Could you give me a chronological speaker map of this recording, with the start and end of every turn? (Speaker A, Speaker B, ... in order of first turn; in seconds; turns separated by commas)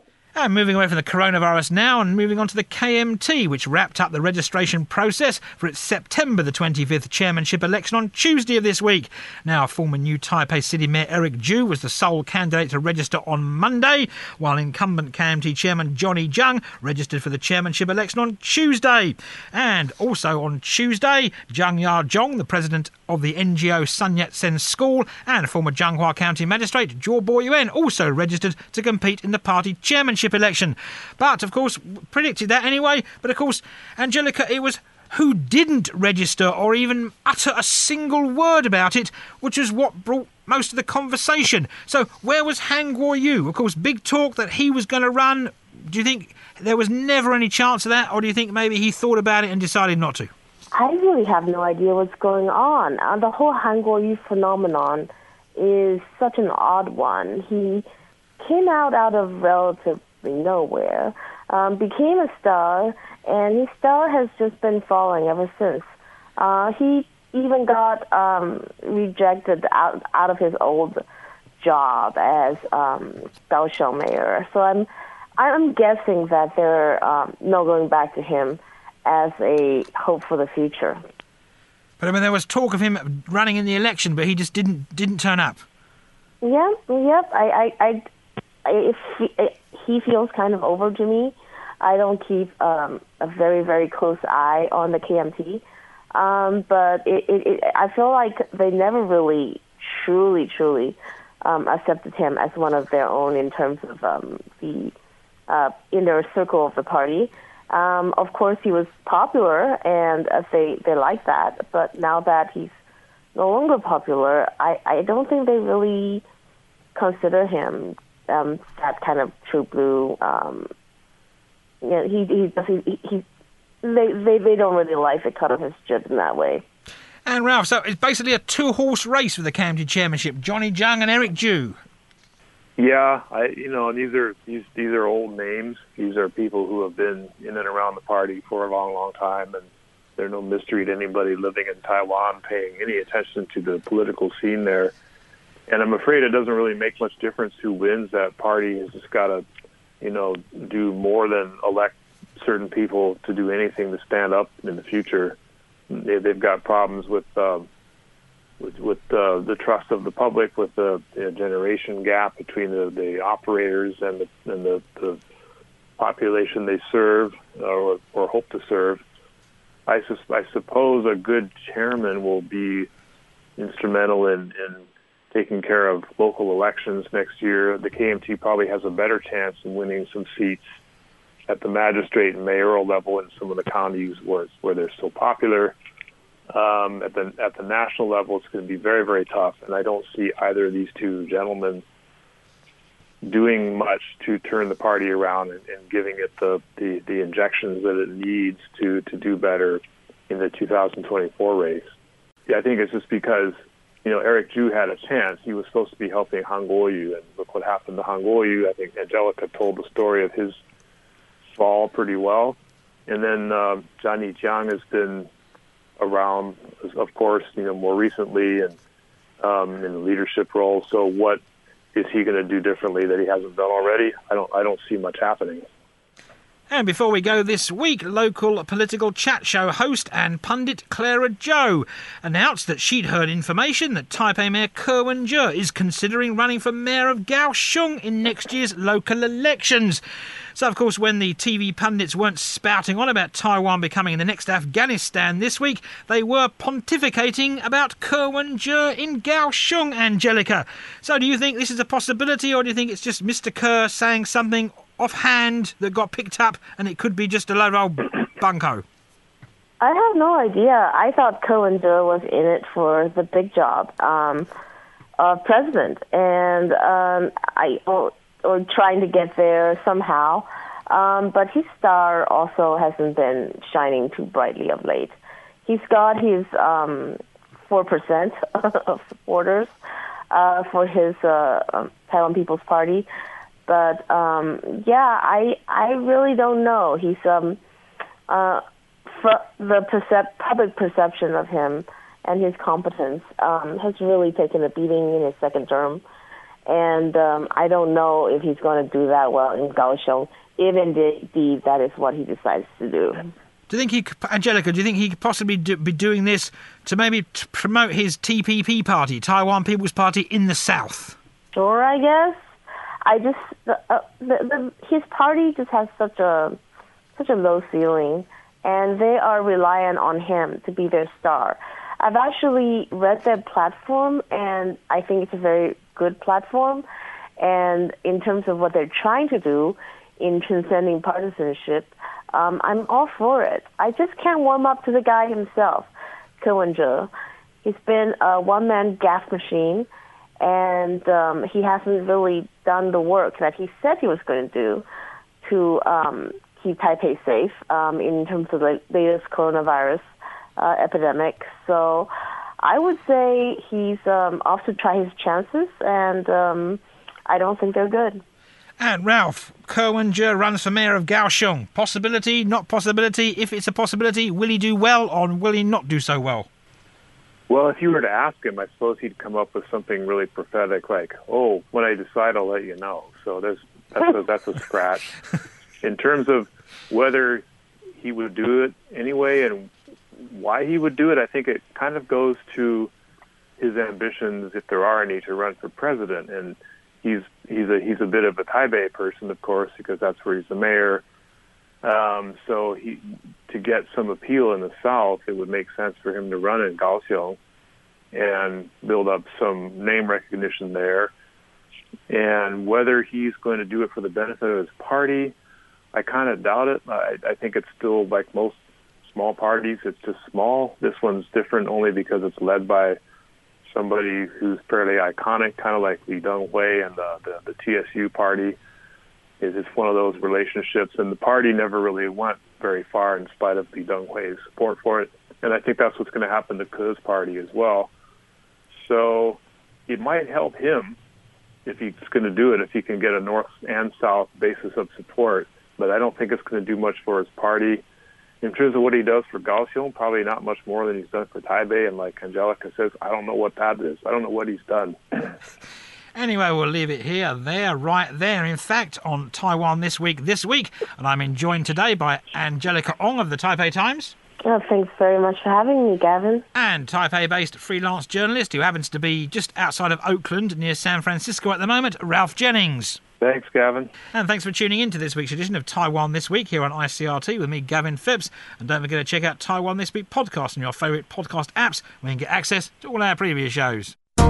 Speaker A: 0.4-50.3, Speaker B: 50.7-57.9, Speaker B: 58.4-65.9, Speaker B: 66.4-71.0, Speaker B: 71.6-74.9, Speaker B: 75.4-81.0, Speaker A: 82.0-85.6, Speaker B: 86.4-88.0, Speaker B: 88.7-95.6, Speaker B: 96.1-104.9, Speaker B: 105.5-112.8, Speaker B: 113.3-116.2, Speaker B: 117.0-120.7, Speaker B: 121.8-123.2, Speaker B: 123.8-126.6, Speaker A: 127.3-131.8, Speaker C: 132.8-139.7, Speaker C: 140.2-144.9, Speaker C: 145.7-149.4, Speaker C: 150.0-155.4, Speaker C: 155.9-157.7, Speaker C: 158.6-165.2, Speaker C: 166.0-169.0, Speaker C: 169.9-172.9, Speaker C: 173.6-180.8, Speaker C: 181.5-185.8, Speaker C: 186.5-191.8, Speaker C: 193.2-201.9, Speaker C: 202.5-210.6, Speaker C: 211.6-215.3, Speaker C: 216.0-218.8, Speaker C: 219.4-221.4, Speaker C: 221.9-225.6, Speaker A: 226.7-240.0, Speaker A: 240.6-258.9, Speaker B: 259.8-264.5, Speaker B: 265.2-279.7, Speaker B: 280.3-283.1, Speaker B: 283.7-287.6, Speaker B: 288.3-296.0, Speaker B: 296.7-303.3, Speaker A: 303.7-311.2, Speaker B: 311.5-312.4, Speaker B: 313.1-316.6, Speaker B: 317.2-326.9, Speaker B: 327.4-335.9, Speaker B: 336.4-337.1, Speaker B: 337.6-339.9, Speaker B: 340.4-344.9, Speaker B: 345.4-350.1, Speaker B: 350.6-358.2, Speaker A: 358.8-366.5, Speaker C: 367.5-375.1, Speaker C: 375.8-377.4, Speaker C: 378.0-382.9, Speaker C: 383.6-391.0, Speaker C: 391.8-397.4, Speaker C: 398.1-401.1, Speaker C: 402.1-405.4, Speaker C: 405.9-413.0, Speaker C: 413.7-418.6, Speaker C: 419.4-427.9, Speaker C: 428.7-431.0, Speaker C: 431.6-437.8, Speaker C: 438.4-445.3, Speaker A: 446.1-454.1, Speaker B: 454.4-456.4, Speaker A: 456.5-463.0, Speaker C: 463.2-463.9, Speaker A: 464.1-474.0